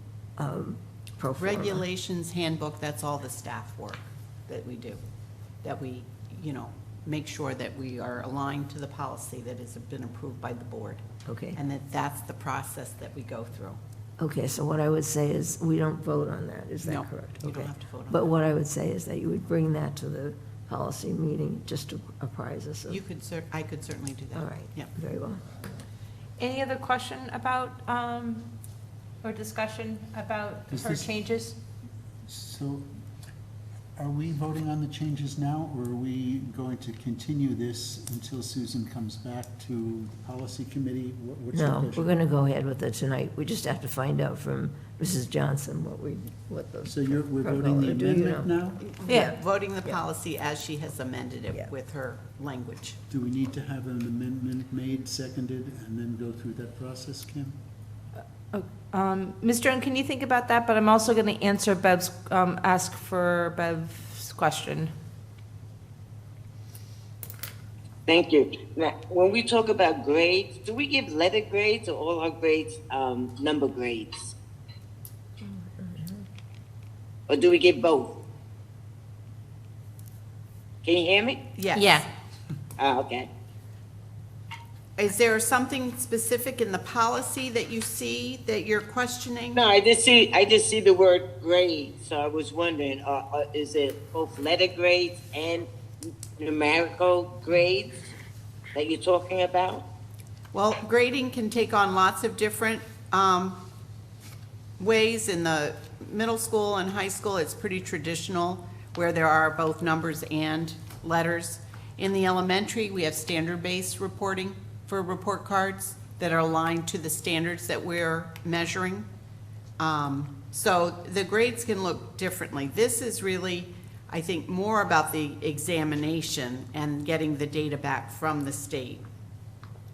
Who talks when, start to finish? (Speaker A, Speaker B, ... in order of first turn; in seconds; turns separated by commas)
Speaker A: 0.4-1.8, Speaker B: 1.4-5.0, Speaker B: 5.6-11.0, Speaker A: 11.2-11.6, Speaker B: 11.5-13.8, Speaker A: 14.2-23.0, Speaker B: 16.8-18.3, Speaker B: 22.9-24.9, Speaker A: 24.3-25.4, Speaker C: 26.4-28.5, Speaker C: 29.2-31.5, Speaker D: 30.7-31.1, Speaker D: 32.2-32.9, Speaker D: 34.0-42.1, Speaker A: 41.5-48.5, Speaker D: 46.8-48.8, Speaker B: 48.8-53.0, Speaker C: 49.1-49.3, Speaker D: 53.1-57.6, Speaker C: 58.5-64.9, Speaker E: 68.1-74.3, Speaker A: 75.4-76.2, Speaker E: 77.3-78.1, Speaker E: 80.8-81.4, Speaker B: 81.6-82.0, Speaker C: 81.7-82.0, Speaker E: 82.8-83.3, Speaker B: 85.0-89.6, Speaker E: 89.5-98.1, Speaker E: 98.7-99.8, Speaker B: 100.5-103.6, Speaker B: 104.8-119.1, Speaker B: 119.8-129.0